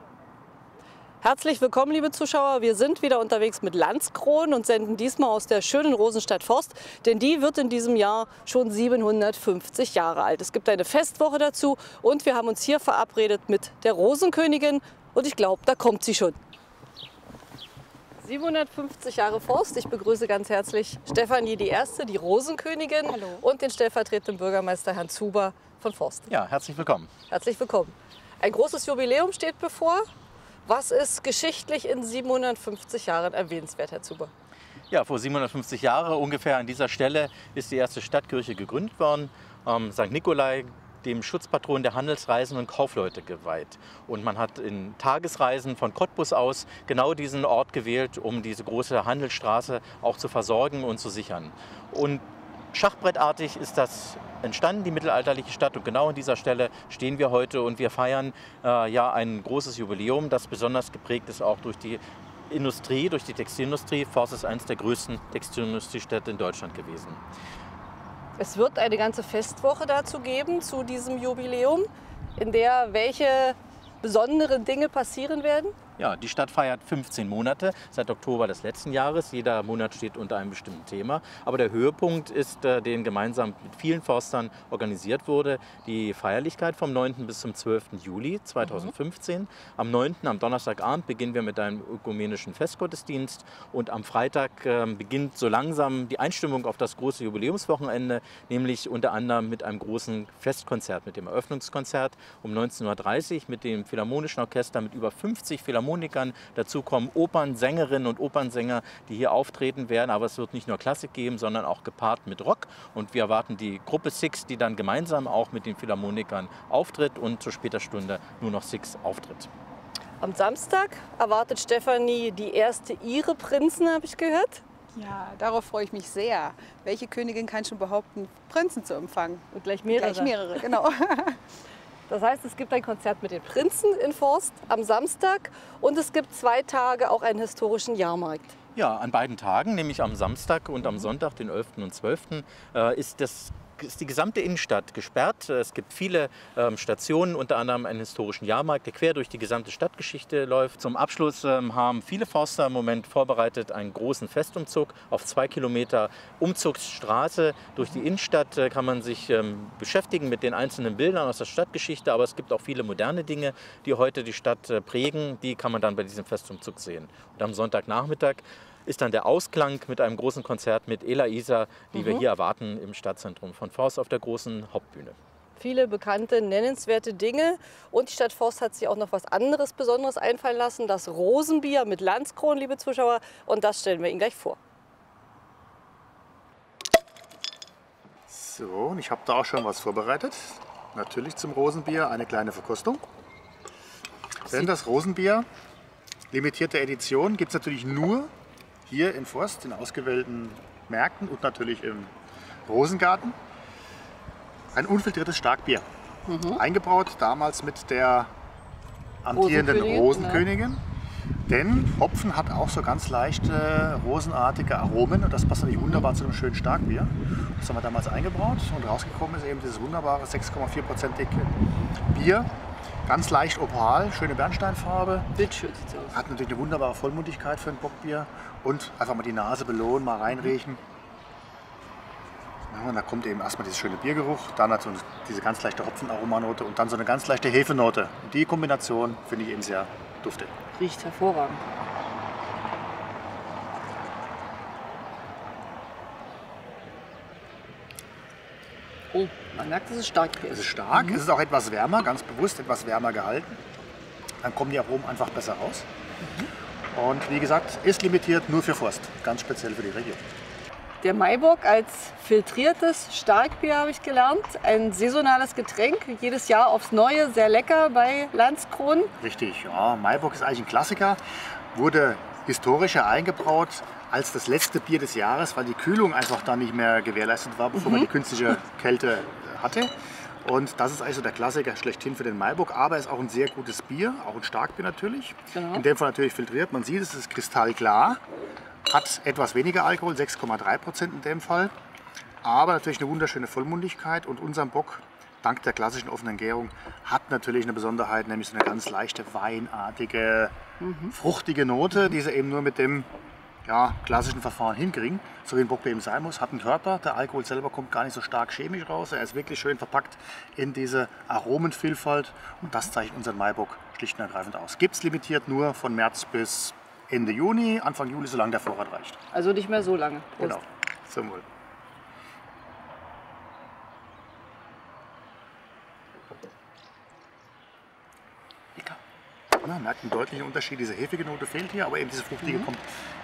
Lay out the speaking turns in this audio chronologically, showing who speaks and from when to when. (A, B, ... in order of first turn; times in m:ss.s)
0:01.2-0:16.4 A
0:18.2-0:26.3 A
0:23.1-0:23.4 B
0:26.3-0:27.1 C
0:27.3-0:30.0 A
0:30.6-0:34.3 A
0:34.9-1:07.2 C
1:08.4-1:15.7 A
1:16.0-1:59.5 C
1:28.6-1:28.9 A
2:00.2-2:04.6 A
2:04.9-2:09.4 B
2:09.5-2:10.7 A
2:09.9-2:11.4 B
2:12.1-2:18.5 A
2:18.7-2:55.2 C
2:51.9-2:52.2 A
2:55.6-3:04.6 A
3:08.3-3:13.0 D
3:14.5-3:15.5 D
3:16.3-3:18.3 D
3:18.8-3:22.1 D
3:22.7-3:23.4 D
3:24.7-3:25.8 D
3:26.3-3:26.6 A
3:26.4-3:28.3 D
3:29.2-3:30.8 D
3:29.3-3:30.5 A
3:31.5-3:41.5 D
3:35.8-3:36.0 A
3:42.1-3:42.5 D
3:43.0-3:45.3 D
3:45.4-3:46.2 A
3:46.1-3:50.8 D
3:52.7-4:00.5 D
4:00.7-4:01.6 A
4:09.1-4:11.2 A
4:10.5-4:13.6 D
4:14.4-4:15.9 D
4:16.2-4:16.5 A
4:16.9-4:20.2 D
4:21.0-4:29.1 A
4:29.2-4:31.2 D
4:31.7-4:39.9 D
4:37.7-4:38.1 A
4:40.4-4:48.2 D
4:45.5-4:45.8 A
4:48.8-4:51.7 D
4:52.4-5:00.5 D
5:00.8-5:01.1 A
5:01.1-5:03.1 D
5:03.6-5:19.2 D
5:19.3-5:20.6 A
5:20.4-5:21.4 D
5:29.6-5:32.8 D